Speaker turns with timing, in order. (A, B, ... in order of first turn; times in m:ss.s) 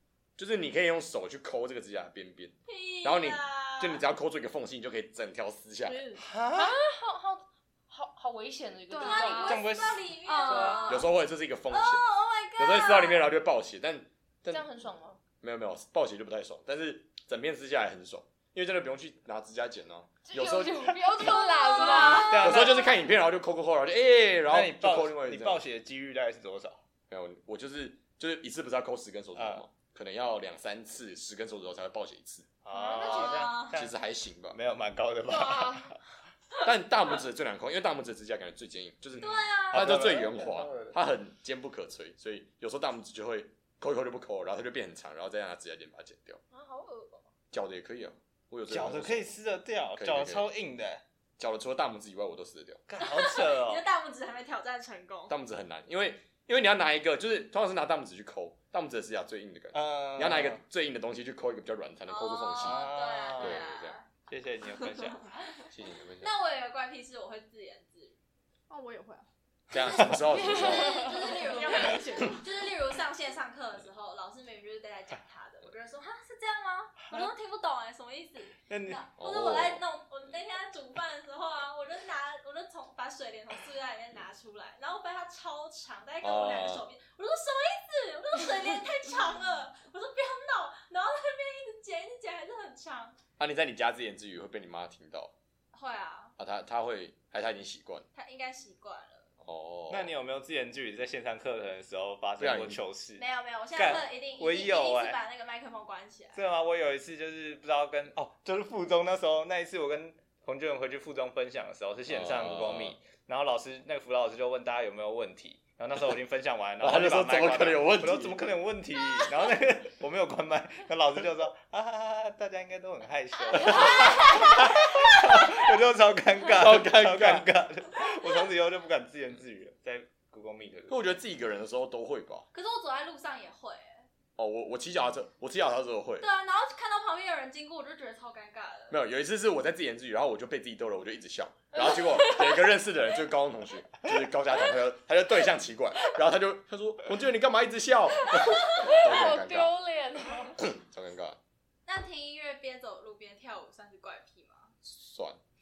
0:00.4-0:06.0 A
0:02.7-0:04.0 B
0:05.8-0:06.2 C
0:06.2-0:06.8 D
0:06.5-0:09.7 E
0:08.9-0:09.7 C
0:08.9-0:11.1 B
0:09.4-0:10.8 D
0:10.2-0:11.0 C
0:10.9-0:12.0 A
0:11.7-0:13.3 B
0:12.6-0:14.7 A
0:14.5-0:15.2 E
0:15.4-0:21.3 A
0:20.2-0:22.5 E
0:21.5-0:22.6 B
0:21.8-0:22.2 C
0:21.9-0:22.9 D
0:22.4-0:25.6 A
0:24.5-0:26.8 D
0:27.1-0:32.5 A
0:29.4-0:29.6 D
0:32.6-0:34.0 D
0:32.7-0:33.7 E
0:33.0-0:33.8 B
0:33.7-0:34.6 A
0:34.5-0:36.0 D
0:35.3-0:36.0 E
0:36.6-0:46.4 A
0:39.2-0:40.0 B
0:39.2-0:40.9 D
0:46.5-0:47.3 E
0:47.5-0:49.3 A
0:48.7-0:51.0 D
0:50.0-0:50.5 A
0:51.4-0:52.8 A
0:52.9-0:53.8 D
0:53.0-0:55.4 B
0:55.3-1:04.0 A
0:59.7-1:00.6 D
1:02.1-1:04.1 B
1:02.6-1:03.6 D
1:04.3-1:05.3 D
1:05.7-1:06.3 A
1:06.2-1:08.2 B
1:08.7-1:09.3 C
1:09.7-1:11.1 A
1:10.3-1:11.8 E
1:10.4-1:33.2 B
1:10.6-1:12.6 C
1:18.7-1:19.0 D
1:19.2-1:19.8 A
1:26.2-1:26.8 A
1:33.4-1:35.3 A
1:35.7-1:36.4 B
1:36.4-1:38.1 A
1:38.1-1:39.3 B
1:39.4-1:40.1 A
1:39.9-1:45.2 D
1:42.4-1:42.8 A
1:43.2-1:46.4 B
1:46.4-2:11.1 D
1:52.1-1:53.0 A
1:56.8-1:58.4 A
2:03.8-2:04.5 E
2:04.0-2:04.3 B
2:06.5-2:07.5 A
2:10.9-2:12.5 A
2:12.5-2:14.1 B
2:14.4-2:16.3 A
2:16.2-2:19.0 B
2:18.9-2:29.7 A
2:21.7-2:22.7 E
2:28.3-2:30.6 E
2:30.6-2:31.4 A
2:31.9-2:34.7 B
2:34.8-2:35.4 A